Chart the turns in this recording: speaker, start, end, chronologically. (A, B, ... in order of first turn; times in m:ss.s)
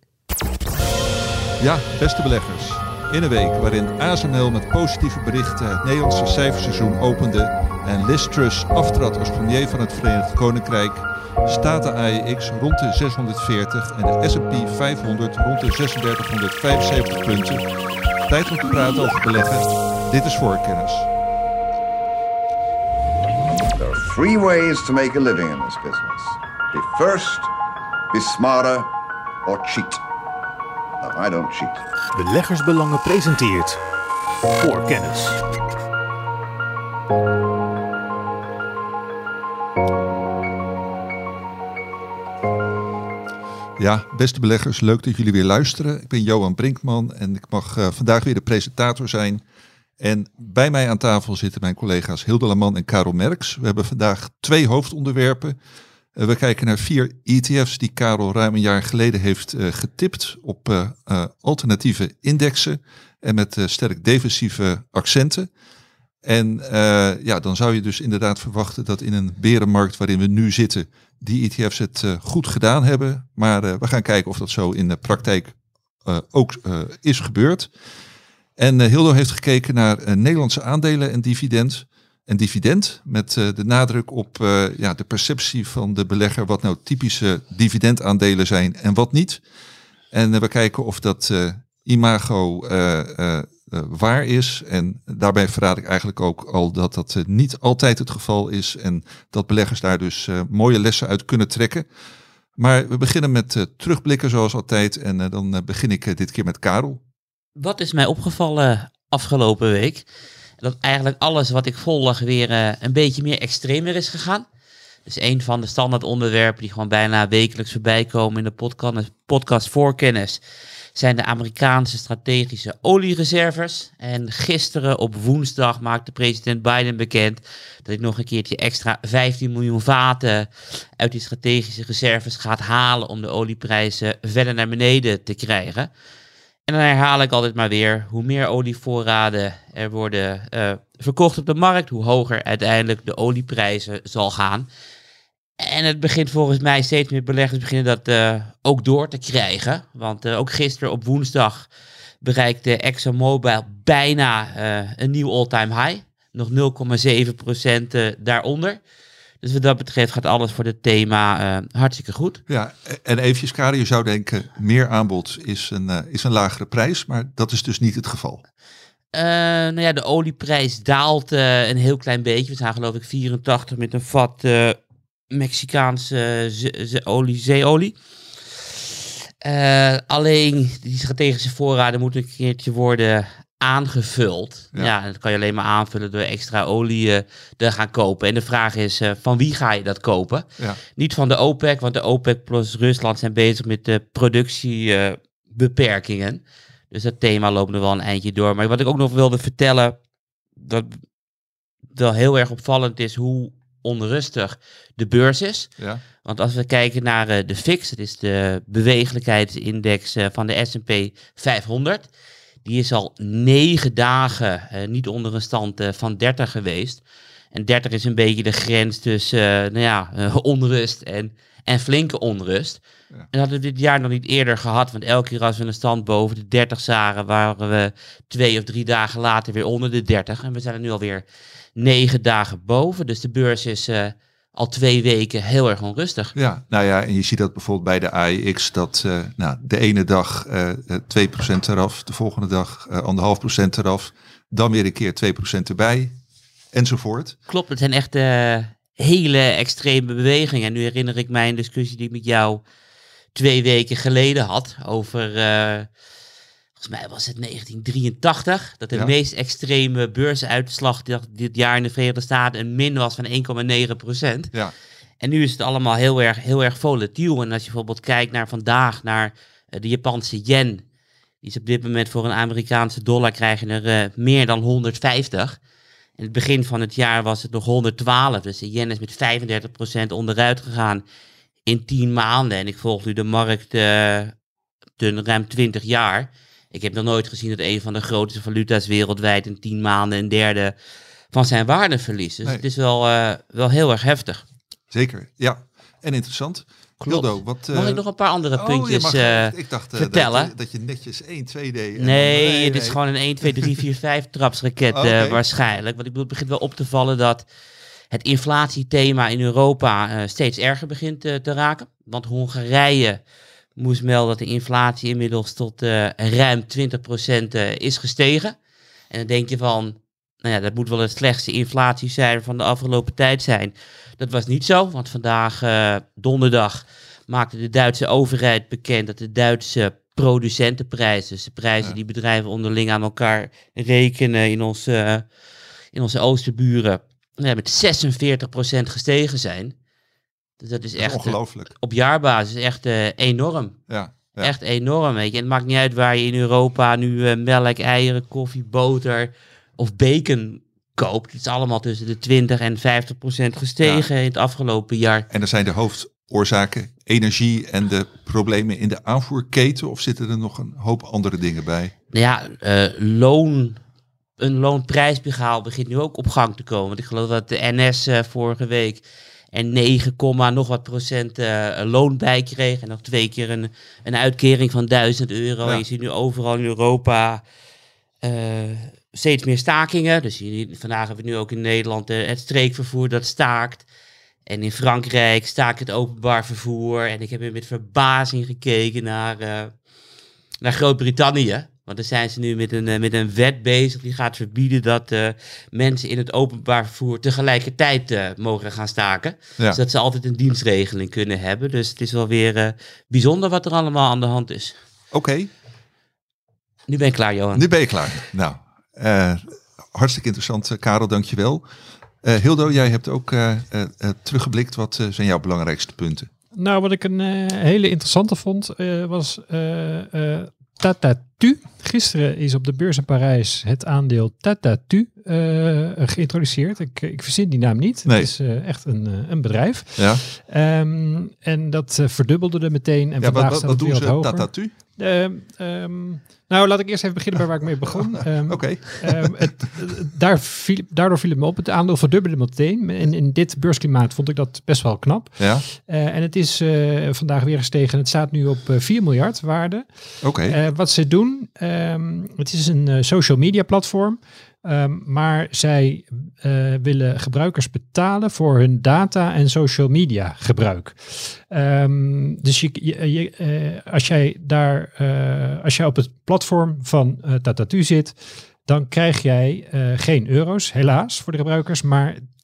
0:01.6-0:17.7 A
0:18.3-0:21.1 A
0:23.4-0:27.5 B
0:28.1-0:28.9 B
0:29.4-0:30.0 B
0:31.0-0:32.0 B
0:32.1-0:33.8 C
0:34.6-0:35.5 C
0:43.8-0:49.4 A
0:50.0-0:55.6 A
0:56.2-1:05.5 A
1:06.2-1:17.7 A
1:18.6-1:29.4 A
1:30.1-1:41.8 A
1:42.6-1:47.0 A
1:47.6-1:50.0 D
1:50.6-1:54.4 D
1:55.0-2:00.4 D
2:00.9-2:15.9 D
2:16.7-2:24.7 D
2:25.6-2:31.7 D
2:32.2-2:38.8 D
2:39.4-2:42.4 D
2:42.5-2:48.4 A
2:49.1-2:54.8 D
2:55.3-2:57.9 D
2:59.4-3:20.0 D
3:20.6-3:21.0 D
3:21.9-3:25.7 D
3:26.2-3:32.1 D
3:32.6-3:42.8 D
3:43.3-3:51.2 D
3:51.8-3:56.3 D
3:56.3-4:06.1 A
4:06.7-4:07.4 A
4:07.5-4:12.6 D
4:13.3-4:15.9 D
4:16.8-4:24.5 D
4:25.2-4:30.8 D
4:31.4-4:35.6 D
4:36.2-4:41.0 D
4:41.6-4:44.3 D
4:45.0-4:50.7 D
4:51.3-4:54.4 D
4:54.9-4:58.0 A
4:57.0-5:00.5 D
4:58.5-5:03.0 A
5:02.0-5:07.4 D
5:04.9-5:05.4 A
5:08.1-5:13.2 D
5:13.8-5:18.6 D
5:19.1-5:35.2 D
5:35.9-5:39.7 D
5:40.6-5:43.8 D
5:41.0-5:41.7 A
5:43.9-5:44.5 A
5:44.4-5:55.2 D
5:53.8-5:54.1 A
5:55.3-6:01.9 A
6:02.1-6:03.8 D
6:04.4-6:17.4 D
6:18.2-6:23.8 D
6:24.5-6:29.7 D
6:30.6-6:44.8 D
6:45.1-6:45.5 A
6:46.9-6:47.7 D
6:47.5-6:51.6 A
6:52.2-6:56.3 A
6:56.5-7:29.9 E
7:10.0-7:10.2 A
7:13.2-7:14.7 A
7:18.4-7:19.6 A
7:25.4-7:25.6 A
7:30.2-7:30.6 A
7:30.4-7:52.2 E